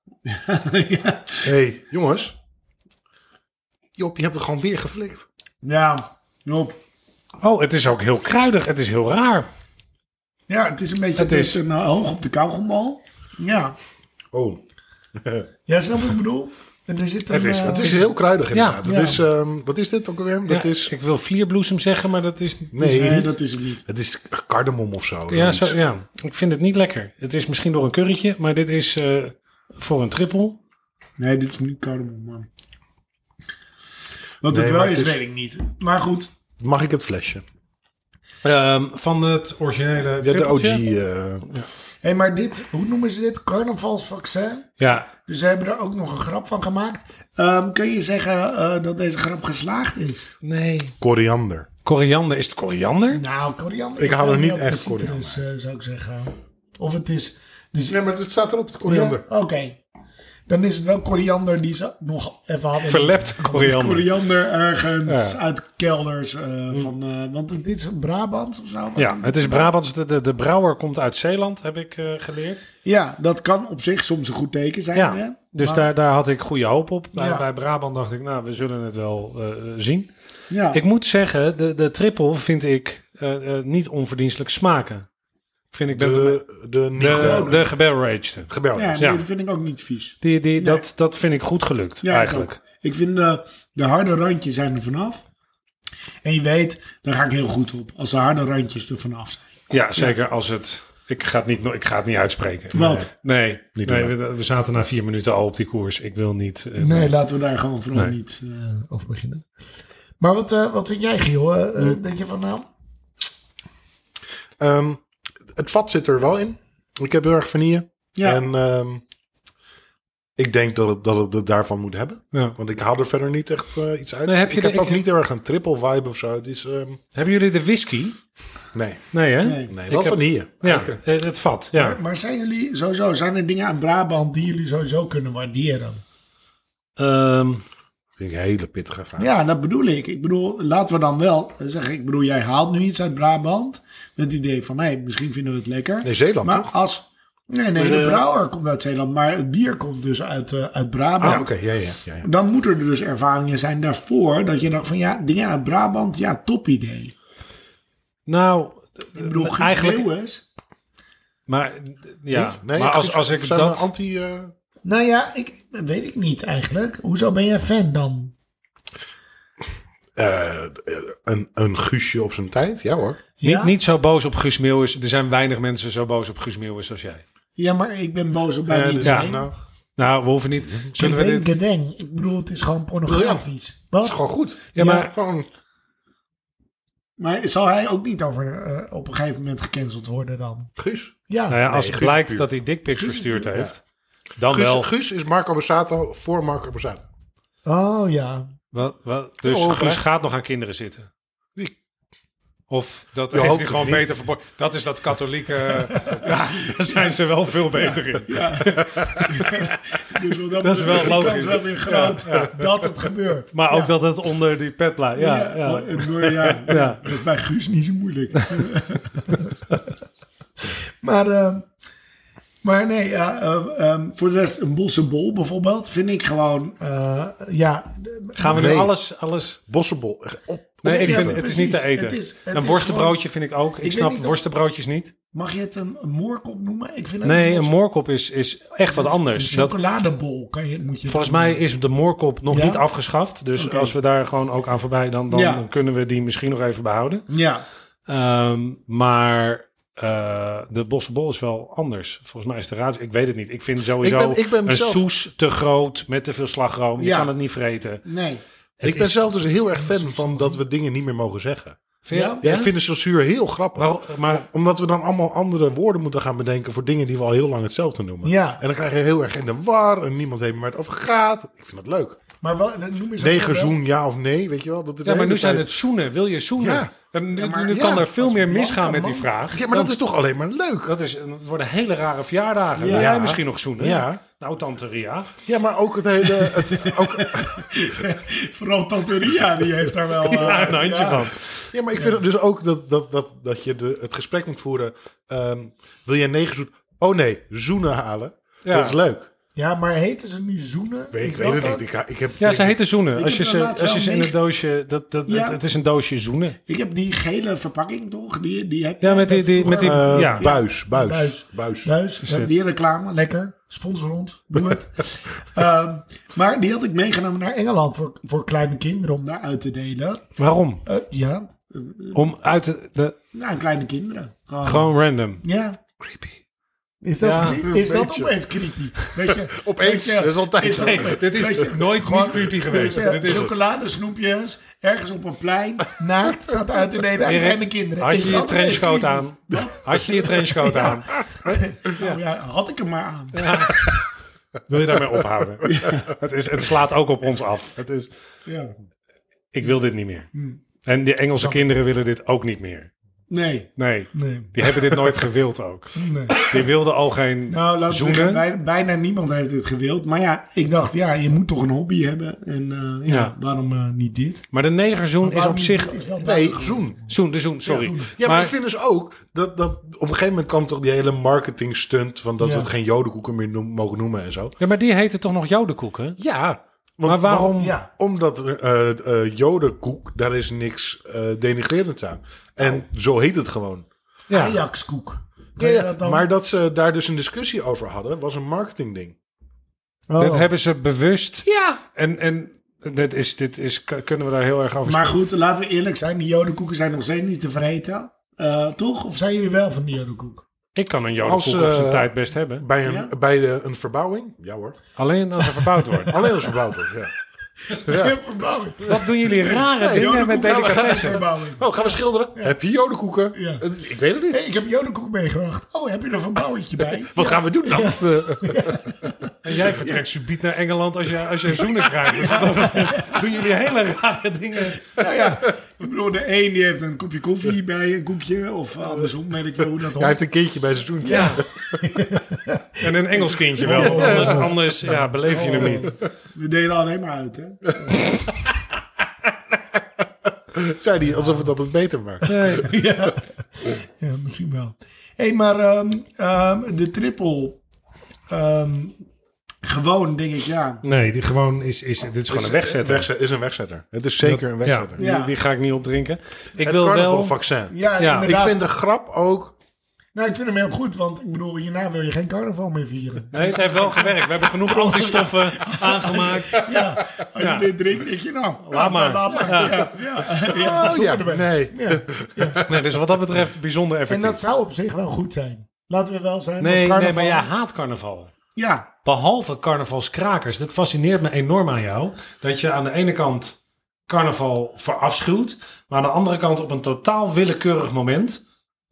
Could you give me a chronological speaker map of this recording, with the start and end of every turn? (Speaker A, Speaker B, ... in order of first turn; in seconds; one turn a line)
Speaker A: 0.2-1.5
Speaker B: 1.4-2.4
Speaker B: 4.0-5.2
Speaker A: 5.6-6.8
Speaker C: 7.4-9.5
Speaker A: 10.5-13.8
Speaker C: 11.2-11.6
Speaker B: 14.3-14.6
Speaker B: 15.2-15.5
Speaker A: 15.7-18.1
Speaker C: 17.3-18.8
Speaker B: 17.5-20.9
Speaker A: 18.8-19.2
Speaker C: 20.5-23.1
Speaker B: 22.7-25.8
Speaker A: 22.8-23.8
Speaker C: 25.3-30.6
Speaker A: 31.2-32.5
Speaker A: 34.4-36.3
Speaker B: 34.5-35.2
Speaker B: 36.6-37.4
Speaker C: 38.4-40.8
Speaker B: 40.2-41.5
Speaker A: 42.0-44.7
Speaker C: 44.8-45.1
Speaker A: 45.2-50.3
Speaker C: 50.4-51.0
Speaker B: 51.0-51.7
Speaker C: 51.8-53.2
Speaker A: 53.1-58.0
Speaker B: 54.0-55.4
Speaker B: 57.8-59.2
Speaker A: 58.9-59.8
Speaker A: 60.5-69.7
Speaker C: 62.8-64.1
Speaker C: 65.1-65.4
Speaker C: 69.0-72.7
Speaker A: 72.8-75.8
Speaker C: 74.9-80.1
Speaker A: 77.1-77.4
Speaker A: 80.5-80.8
Speaker C: 80.7-85.1
Speaker C: 85.7-86.4
Speaker B: 85.9-87.6
Speaker C: 87.0-89.2
Speaker A: 87.0-87.6
Speaker B: 88.5-89.1
Speaker A: 88.7-90.8
Speaker C: 90.2-92.6
Speaker A: 92.0-95.2
Speaker A: 96.2-100.1
Speaker C: 99.7-107.1
Speaker A: 102.7-103.1
Speaker B: 102.8-103.0
Speaker B: 103.7-104.1
Speaker A: 106.8-109.4
Speaker A: 110.2-112.7
Speaker B: 114.6-119.0
Speaker A: 118.2-118.4
Speaker B: 120.4-127.0
Speaker C: 124.2-125.0
Speaker C: 127.1-128.2
Speaker B: 128.7-129.1
Speaker C: 129.1-132.0
Speaker A: 129.4-129.7
Speaker B: 129.7-131.0
Speaker A: 131.7-136.0
Speaker C: 137.0-137.6
Speaker B: 138.2-139.3
Speaker A: 139.2-151.5
Speaker B: 146.0-146.7
Speaker C: 147.8-148.2
Speaker B: 151.2-152.3
Speaker A: 152.2-157.1
Speaker C: 158.3-160.1
Speaker A: 159.2-160.4
Speaker C: 161.5-163.9
Speaker B: 162.3-164.5
Speaker A: 164.8-168.3
Speaker B: 170.2-173.2
Speaker A: 173.4-173.7
Speaker C: 173.4-177.2
Speaker A: 177.6-179.5
Speaker B: 178.7-179.6
Speaker C: 179.0-179.3
Speaker C: 179.9-181.5
Speaker A: 180.9-184.2
Speaker B: 183.1-183.4
Speaker B: 184.0-185.5
Speaker C: 184.7-185.1
Speaker A: 184.8-185.1
Speaker A: 187.2-190.7
Speaker B: 190.8-192.5
Speaker A: 191.3-191.6
Speaker C: 191.5-193.8
Speaker A: 192.9-193.5
Speaker C: 194.4-194.9
Speaker B: 194.5-197.0
Speaker A: 197.6-198.5
Speaker C: 198.7-201.1
Speaker B: 199.4-200.1
Speaker C: 202.7-209.8
Speaker B: 203.3-204.2
Speaker A: 205.9-207.2
Speaker A: 207.7-213.9
Speaker B: 208.8-209.3
Speaker C: 210.6-212.6
Speaker C: 213.5-217.0
Speaker A: 215.1-219.7
Speaker A: 221.0-221.7
Speaker A: 222.6-228.9
Speaker C: 228.4-229.6
Speaker B: 228.5-228.9
Speaker B: 229.7-231.4
Speaker C: 230.8-235.1
Speaker A: 230.9-233.2
Speaker A: 233.8-234.4
Speaker A: 235.3-237.7
Speaker C: 237.2-239.8
Speaker A: 238.9-241.6
Speaker C: 241.1-247.2
Speaker A: 242.5-242.8
Speaker A: 243.5-243.9
Speaker A: 245.3-245.6
Speaker A: 247.3-247.6
Speaker C: 248.1-258.0
Speaker B: 254.0-255.0
Speaker A: 257.0-257.3
Speaker A: 258.0-258.4
Speaker C: 258.8-259.4
Speaker B: 258.8-261.8
Speaker C: 262.0-262.7
Speaker A: 262.1-262.4
Speaker B: 262.4-272.2
Speaker C: 263.8-264.5
Speaker A: 268.2-268.6
Speaker A: 272.4-273.8
Speaker B: 273.2-275.7
Speaker C: 275.0-279.9
Speaker B: 276.6-276.9
Speaker A: 277.4-279.3
Speaker B: 277.7-278.1
Speaker B: 279.5-280.9
Speaker C: 280.8-285.3
Speaker A: 282.8-283.1
Speaker B: 282.8-284.2
Speaker B: 285.4-288.0
Speaker A: 286.2-291.3
Speaker C: 290.2-291.7
Speaker B: 291.7-299.3
Speaker C: 298.6-299.0
Speaker A: 299.5-301.9
Speaker B: 301.1-302.8
Speaker C: 302.4-306.6
Speaker A: 303.1-304.3
Speaker A: 305.3-305.6
Speaker A: 306.7-320.2
Speaker C: 309.0-310.4
Speaker B: 309.6-311.9
Speaker C: 312.2-312.5
Speaker C: 320.4-320.8
Speaker A: 320.9-322.3
Speaker C: 322.1-323.1
Speaker A: 323.3-324.9
Speaker C: 324.6-325.4
Speaker A: 325.4-325.8
Speaker B: 326.0-326.4
Speaker A: 327.0-344.0
Speaker C: 327.2-327.7
Speaker B: 327.4-328.4
Speaker B: 329.0-331.6
Speaker C: 330.7-333.5
Speaker C: 337.2-342.2
Speaker C: 343.3-344.0
Speaker C: 344.7-348.1
Speaker A: 345.6-346.1
Speaker A: 348.4-348.7
Speaker C: 349.5-350.3
Speaker A: 350.3-350.6
Speaker C: 350.8-352.9
Speaker A: 353.3-355.0
Speaker C: 353.8-358.4
Speaker A: 355.9-356.6
Speaker A: 357.5-364.5
Speaker C: 363.1-363.3
Speaker C: 364.5-366.0
Speaker A: 365.2-367.0
Speaker B: 366.2-367.1
Speaker C: 367.1-368.5
Speaker A: 367.6-368.1
Speaker B: 368.1-374.5
Speaker A: 372.4-372.7
Speaker C: 374.6-376.2
Speaker B: 376.2-383.9
Speaker C: 377.0-377.8
Speaker A: 377.6-377.9
Speaker C: 384.3-384.6
Speaker A: 384.3-386.2
Speaker B: 385.6-389.1
Speaker A: 390.1-390.5
Speaker C: 390.2-395.2
Speaker B: 391.4-391.8
Speaker A: 394.8-400.4
Speaker C: 400.7-402.6
Speaker B: 401.2-404.8
Speaker A: 402.8-403.1
Speaker C: 405.0-406.2
Speaker A: 405.6-406.5
Speaker B: 406.1-407.1
Speaker A: 407.6-411.8
Speaker B: 407.9-408.2
Speaker C: 408.8-411.2
Speaker B: 409.6-414.4
Speaker A: 413.3-413.6
Speaker A: 414.3-420.0
Speaker B: 417.1-418.9
Speaker C: 419.4-424.9
Speaker A: 422.2-423.2
Speaker A: 424.9-430.2
Speaker B: 429.9-431.9
Speaker C: 431.0-431.4
Speaker A: 431.0-438.3
Speaker C: 432.8-435.9
Speaker B: 433.6-434.6
Speaker B: 435.3-435.9
Speaker B: 440.5-442.6
Speaker A: 441.1-441.4
Speaker C: 442.2-442.8
Speaker A: 442.2-447.6
Speaker A: 448.3-448.9
Speaker A: 449.6-450.8
Speaker C: 450.8-453.1
Speaker B: 452.3-455.0
Speaker C: 454.2-457.4
Speaker A: 455.0-455.3
Speaker B: 456.6-459.5
Speaker A: 457.7-458.6
Speaker C: 458.0-458.3
Speaker A: 460.1-472.6
Speaker C: 463.3-467.7
Speaker C: 468.6-469.9
Speaker B: 470.4-472.9
Speaker C: 472.6-474.4
Speaker A: 474.1-477.5
Speaker C: 476.6-478.3
Speaker A: 478.6-478.9
Speaker C: 479.0-488.4